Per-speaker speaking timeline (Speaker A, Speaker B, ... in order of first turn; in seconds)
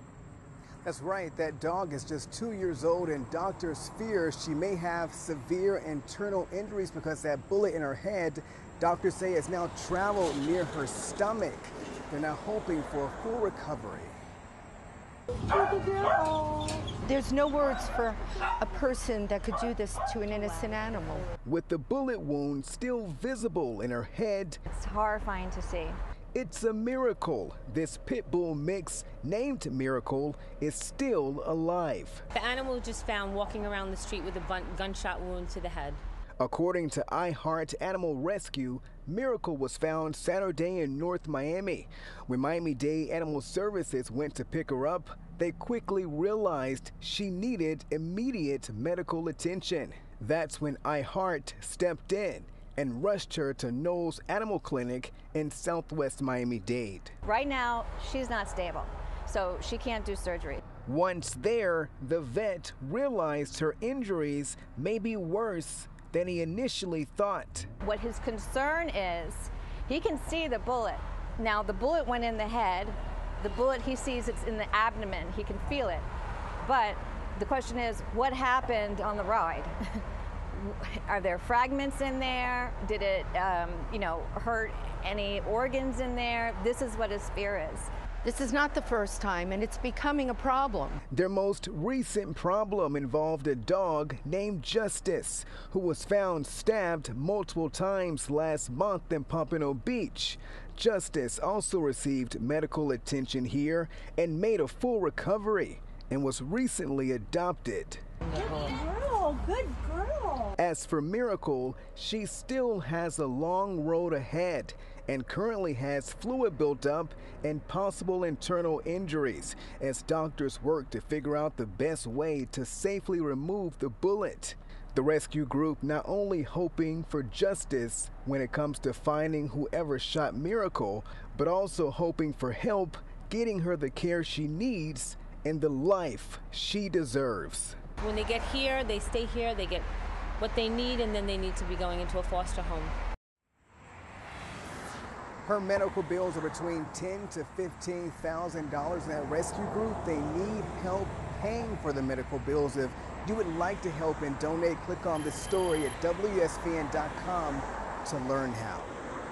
Speaker A: 0.8-14.2, 21.4-24.6, 26.3-32.2, 36.4-57.1, 60.9-67.7, 91.1-108.0, 110.6-137.8, 145.4-158.9
Speaker B: 15.5-16.8, 108.4-110.5
Speaker C: 16.9-21.3, 88.2-91.0
Speaker D: 24.7-26.0, 57.2-60.6, 67.8-76.0, 76.6-87.9
Speaker E: 32.3-36.0, 138.0-139.9, 140.4-142.9